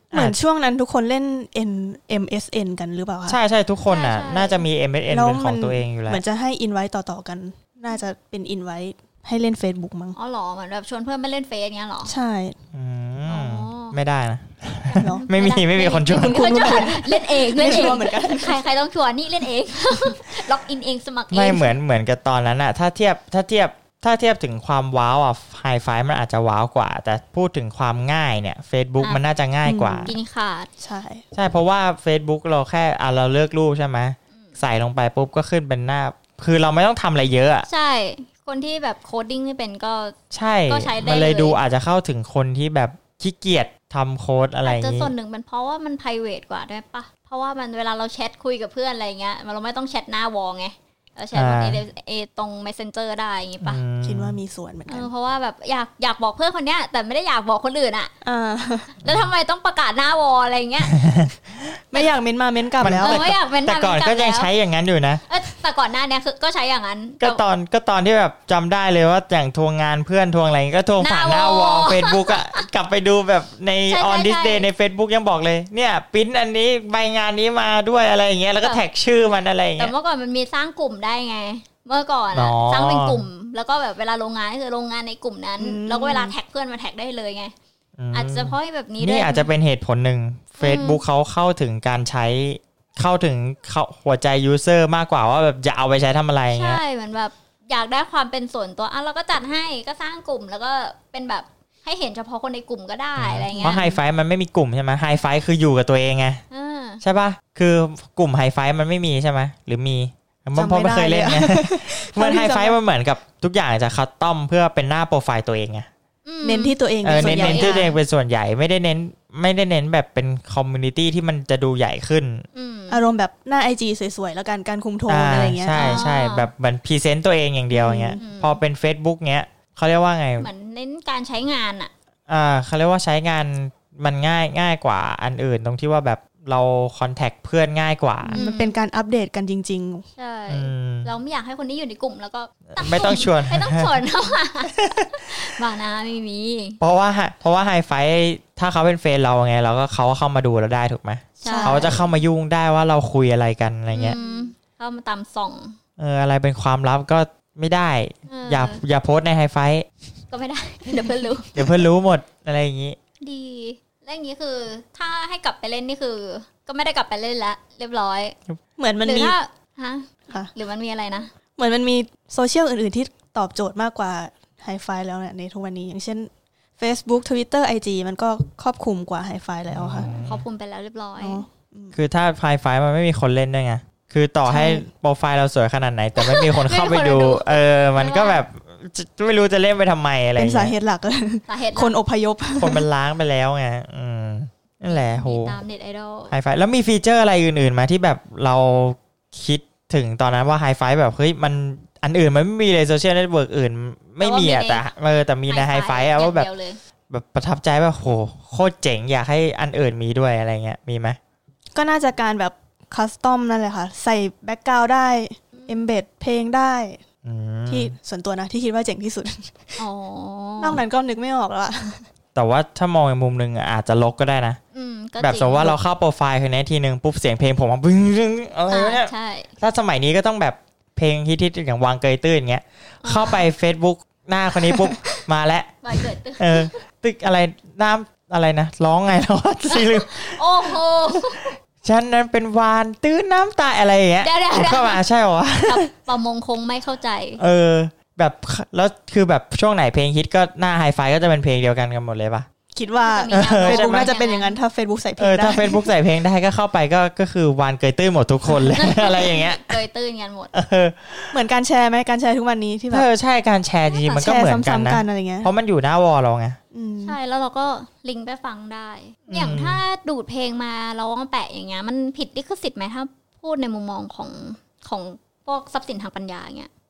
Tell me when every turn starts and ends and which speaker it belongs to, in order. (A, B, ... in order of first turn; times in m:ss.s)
0:00.1-0:03.4 A
0:00.1-0:00.4 B
0:03.3-0:06.2 B
0:03.9-0:04.6 C
0:05.1-0:10.1 A
0:10.1-0:12.1 C
0:12.0-0:12.5 A
0:12.7-0:17.0 B
0:13.3-0:14.0 C
0:14.8-0:21.8 C
0:15.0-0:15.2 A
0:16.1-0:18.6 A
0:21.3-0:30.1 B
0:29.6-0:30.2 A
0:30.0-0:30.7 C
0:30.8-0:31.2 A
0:31.3-0:37.7 B
0:37.7-0:40.1 C
0:40.3-0:45.1 B
0:40.7-0:41.6 C
0:44.6-0:53.8 C
0:51.3-0:51.8 B
0:53.6-0:54.4 B
0:54.0-0:55.1 A
0:54.9-0:58.1 C
0:58.2-0:58.9 A
0:59.0-1:01.0 C
1:00.9-1:01.3 B
1:01.9-1:03.2 A
1:02.8-1:05.2 B
1:03.0-1:04.5 C
1:05.2-1:07.4 C
1:07.2-1:19.9 B
1:11.0-1:12.4 C
1:13.9-1:14.7 C
1:19.8-1:27.5 C
1:22.3-1:23.3 B
1:25.6-1:26.3 A
1:28.0-1:36.8 B
1:28.1-1:29.5 C
1:30.6-1:31.0 C
1:36.5-1:43.9 C
1:43.2-1:46.4 B
1:43.5-1:43.9 A
1:46.5-1:47.0 C
1:47.0-1:55.9 B
1:50.5-1:52.8 A
1:56.2-1:57.8 C
1:56.4-1:58.0 A
1:57.0-2:02.4 B
2:02.5-2:03.0 C
2:02.9-2:06.0 A
2:05.1-2:10.5 B
2:05.7-2:06.5 C
2:07.7-2:08.3 A
2:08.2-2:08.6 C
2:10.4-2:11.9 C
2:12.3-2:18.4 B
2:18.2-2:20.0 A
2:18.3-2:18.8 C
2:20.2-2:26.8 C
2:20.5-2:21.1 B
2:22.7-2:23.9 B
2:24.9-2:25.4 B
2:26.8-2:34.2 B
2:31.4-2:32.1 C
2:31.4-2:32.0 A
2:33.9-2:35.8 C
2:34.1-2:34.5 A
2:36.0-2:39.8 B
2:38.3-2:38.8 C
2:40.3-2:41.6 C
2:41.5-2:43.0 B
2:43.2-2:48.4 C
2:48.8-2:49.4 A
2:49.0-2:51.3 C
2:51.6-3:00.1 A
2:59.7-3:00.4 B
3:00.1-3:01.4 C
3:01.2-3:01.9 A
3:01.9-3:10.7 B
3:04.5-3:04.9 A
3:06.2-3:08.4 C
3:10.4-3:12.8 A
3:11.5-3:12.0 C
3:12.6-3:15.6 B
3:14.9-3:16.3 C
3:16.3-3:26.5 B
3:24.2-3:24.9 C
3:25.4-3:26.8 C
3:27.1-3:31.2 B
3:31.7-3:37.0 A
3:35.6-3:35.8 C
3:37.2-3:37.9 B
3:37.7-3:39.8 A
3:39.8-3:40.8 C
3:40.6-3:42.0 A
3:42.3-3:44.6 B
3:44.7-3:45.8 C
3:45.2-3:55.8 B
3:48.7-3:49.5 C
3:53.0-3:53.4 C
3:55.8-3:56.8 C
3:56.4-4:01.2 B
3:59.7-4:01.5 C
4:01.8-4:05.9 B
4:04.2-4:05.0 C
4:05.6-4:07.4 C
4:07.4-4:12.4 B
4:12.7-4:15.9 A
4:13.0-4:14.6 C
4:13.3-4:14.1 B
4:15.2-4:19.8 B
4:18.7-4:20.5 C
4:20.5-4:21.4 B
4:21.3-4:23.1 A
4:22.9-4:26.6 B
4:24.0-4:25.5 A
4:26.7-4:27.2 A
4:27.0-4:36.7 C
4:29.3-4:29.8 B